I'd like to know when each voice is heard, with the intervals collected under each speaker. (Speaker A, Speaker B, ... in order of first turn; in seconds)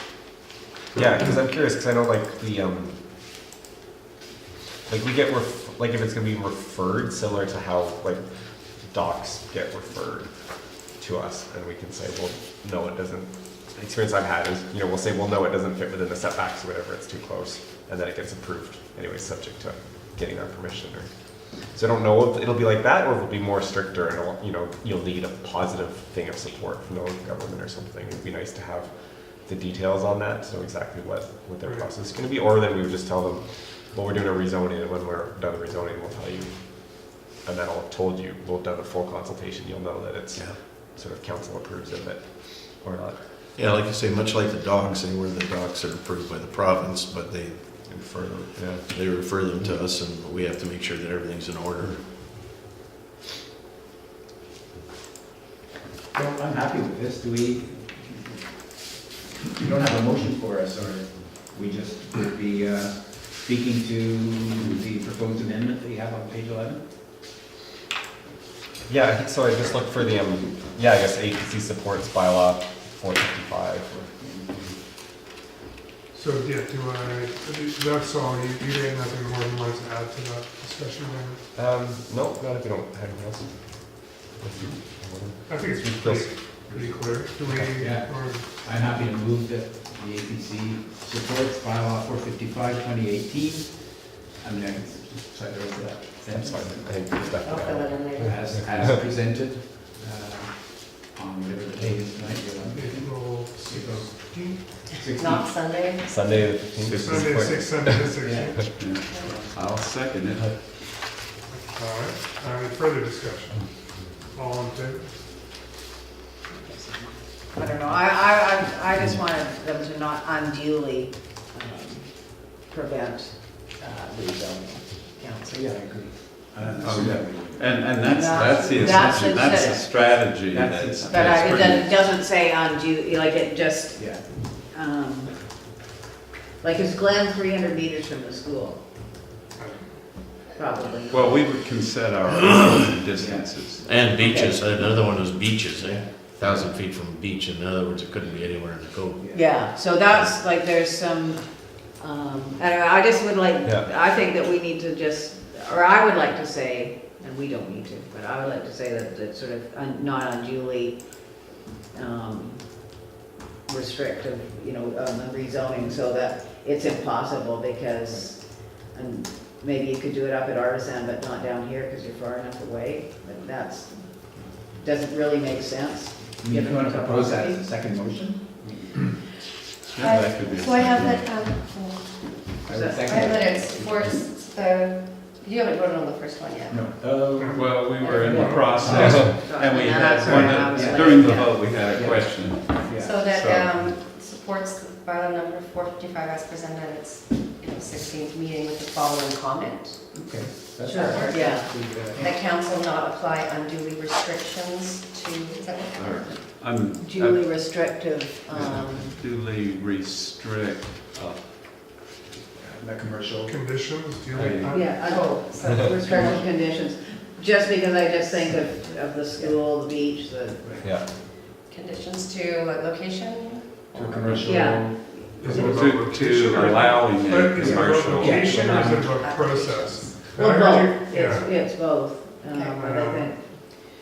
Speaker A: 0.9-3.0, 4.9-43.2, 48.6-48.9, 68.9-73.9, 81.5-86.4, 96.3-98.2, 105.8-108.0, 153.6-153.9
Speaker B: 31.6-31.9, 76.1-81.5, 85.5-88.5, 102.7-104.9, 106.9-108.9, 111.5-115.2, 139.6-140.0, 187.4-187.8, 188.4-189.1, 213.4-214.9, 225.4-231.5, 232.8-233.3
Speaker C: 43.6-52.1, 143.8-149.3
Speaker D: 56.1-58.7, 59.6-66.9, 73.9-74.7, 86.7-97.2, 98.2-105.5, 108.2-109.7, 125.5-129.2, 130.4-131.6, 133.9-134.5, 143.1-143.5, 145.8-146.6, 149.2-149.6, 168.1-168.3, 176.4-179.1, 182.7-184.1, 186.7-189.2, 190.2-193.2, 200.1-202.4, 212.6-213.5, 224.0-224.9, 227.6-229.2
Speaker E: 97.4-99.0, 105.1-106.7, 109.1-109.4, 180.0-186.9, 192.4-200.2, 200.8-206.5, 214.9-216.6, 218.1-219.3, 221.7-224.2, 228.5-230.4, 232.4-232.8
Speaker F: 106.9-107.3, 108.7-110.7, 126.8-131.9, 141.1-144.0, 179.9-181.3, 187.5-193.9, 205.9-211.5, 214.3-214.9, 224.0-228.5
Speaker G: 116.5-117.0, 117.5-125.7, 126.6-127.1, 128.0-130.3, 131.1-135.6, 136.6-138.8, 140.5-141.3, 144.2-144.7, 149.3-163.1, 163.7-177.6, 182.7-183.4, 187.9-191.8, 201.1-201.8, 206.8-209.2, 214.7-220.8, 224.4-225.6, 230.4-233.4